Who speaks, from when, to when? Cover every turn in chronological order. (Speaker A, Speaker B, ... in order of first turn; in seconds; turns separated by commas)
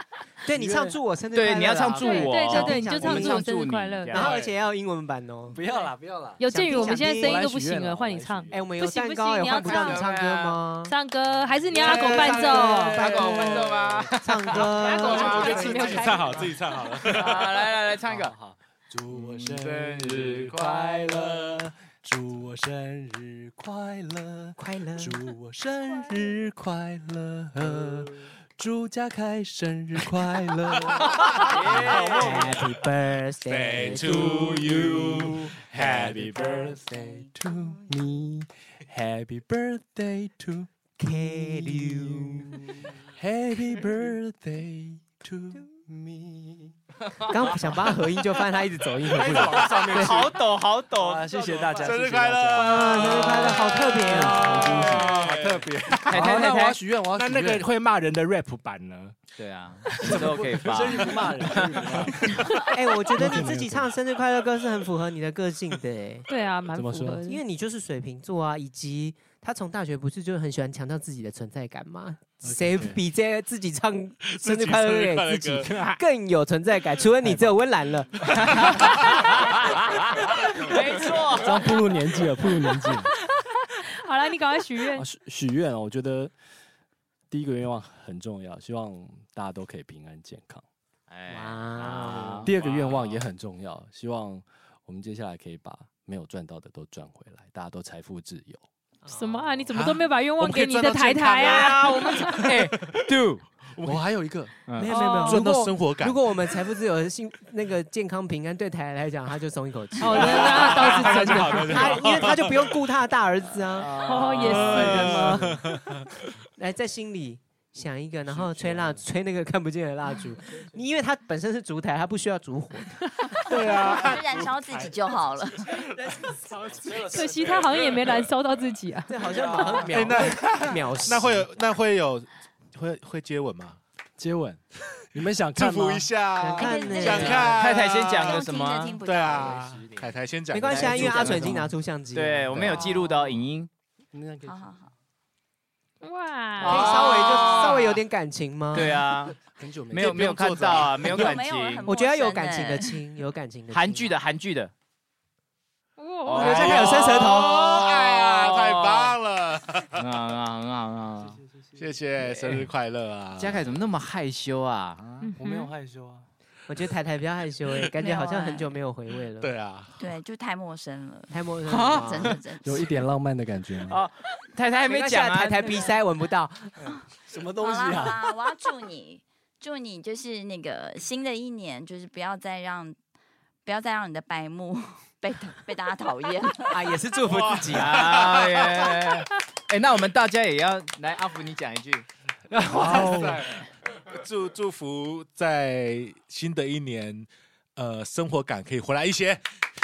Speaker A: 0.4-3.4, Speaker B: 0.5-1.0, Speaker C: 1.3-4.3, Speaker D: 1.9-4.3, Speaker A: 4.1-5.6, Speaker E: 4.2-4.5, Speaker B: 5.5-8.7, Speaker D: 6.4-10.1, Speaker A: 6.5-7.4, Speaker A: 8.5-10.9, Speaker C: 9.5-10.6, Speaker D: 10.9-13.0, Speaker A: 11.8-16.0, Speaker C: 11.8-15.7, Speaker E: 11.8-12.6, Speaker E: 14.8-17.5, Speaker D: 14.9-16.5, Speaker C: 17.0-18.3, Speaker B: 18.0-31.1, Speaker C: 19.1-20.6, Speaker A: 24.6-25.2, Speaker A: 27.7-28.0, Speaker E: 31.2-32.5, Speaker C: 31.3-32.5, Speaker B: 31.6-32.0, Speaker A: 31.7-35.0, Speaker E: 33.5-36.7, Speaker B: 34.0-46.7, Speaker F: 36.6-37.9, Speaker A: 41.0-42.7, Speaker A: 47.3-50.3, Speaker E: 49.0-50.3, Speaker B: 49.2-50.2, Speaker C: 49.8-51.9, Speaker B: 50.9-53.5, Speaker E: 51.8-56.0, Speaker A: 52.5-55.1, Speaker B: 54.1-57.7, Speaker G: 55.8-56.3, Speaker C: 56.1-56.8, Speaker G: 57.1-59.2, Speaker C: 59.4-62.0, Speaker B: 60.0-62.4, Speaker A: 62.7-66.2, Speaker B: 63.1-63.9, Speaker D: 66.3-67.4, Speaker B: 66.7-67.3, Speaker A: 67.2-78.8, Speaker B: 72.4-73.0, Speaker E: 74.2-76.0, Speaker B: 77.2-77.5, Speaker C: 78.6-79.3, Speaker C: 80.6-81.7, Speaker B: 81.4-83.1, Speaker D: 84.0-85.0, Speaker B: 84.9-86.3, Speaker B: 87.3-90.6, Speaker C: 91.1-93.2, Speaker A: 91.3-92.5, Speaker B: 92.4-98.6, Speaker A: 99.0-99.6, Speaker D: 99.1-102.4, Speaker E: 99.7-103.0, Speaker C: 101.4-103.4, Speaker E: 103.8-104.0, Speaker B: 103.8-104.5, Speaker C: 104.7-105.0, Speaker A: 104.8-115.6, Speaker D: 104.9-105.4, Speaker E: 105.1-106.5, Speaker D: 110.0-111.9, Speaker E: 110.1-112.7, Speaker C: 113.8-114.2, Speaker D: 113.9-115.5, Speaker E: 114.3-116.1, Speaker B: 114.7-115.3, Speaker A: 116.5-122.9, Speaker B: 118.3-119.0, Speaker E: 123.5-124.9, Speaker F: 123.7-125.8, Speaker E: 127.0-128.2, Speaker D: 127.1-129.2, Speaker A: 129.1-131.5, Speaker E: 129.5-133.8, Speaker B: 134.2-134.6, Speaker B: 135.1-136.1, Speaker E: 135.6-138.4, Speaker A: 136.4-137.5, Speaker F: 136.5-139.8, Speaker C: 137.3-139.0, Speaker E: 139.0-141.6, Speaker B: 139.6-140.1, Speaker A: 140.5-142.9, Speaker C: 140.7-141.6, Speaker B: 141.2-141.7, Speaker C: 142.1-143.7, Speaker B: 142.7-143.0, Speaker B: 144.1-144.8, Speaker F: 144.4-144.9, Speaker D: 146.0-147.0, Speaker C: 146.6-148.0, Speaker A: 146.6-149.1, Speaker C: 148.7-149.4, Speaker B: 149.3-150.6, Speaker C: 149.9-151.9, Speaker E: 150.0-151.3, Speaker F: 151.1-153.0, Speaker A: 151.8-154.1, Speaker C: 153.7-154.7, Speaker D: 156.0-156.7, Speaker C: 156.2-159.2, Speaker A: 156.3-157.8, Speaker E: 156.4-160.0, Speaker C: 159.9-161.4, Speaker B: 161.2-162.0, Speaker E: 161.8-163.8, Speaker C: 162.2-162.7, Speaker C: 163.4-165.3, Speaker D: 165.2-165.7, Speaker B: 165.4-166.3, Speaker A: 166.7-169.5, Speaker F: 168.0-168.7, Speaker E: 169.4-170.0, Speaker F: 170.0-173.0, Speaker A: 171.3-172.4, Speaker C: 171.7-172.3, Speaker B: 172.6-174.0, Speaker C: 173.9-175.9, Speaker A: 174.8-176.7, Speaker B: 176.8-178.3, Speaker F: 177.6-183.0, Speaker F: 183.6-186.7, Speaker A: 186.7-188.1, Speaker E: 187.2-188.9, Speaker C: 187.7-192.1, Speaker B: 192.6-193.4, Speaker E: 192.7-193.4, Speaker G: 192.8-193.3, Speaker E: 194.0-199.4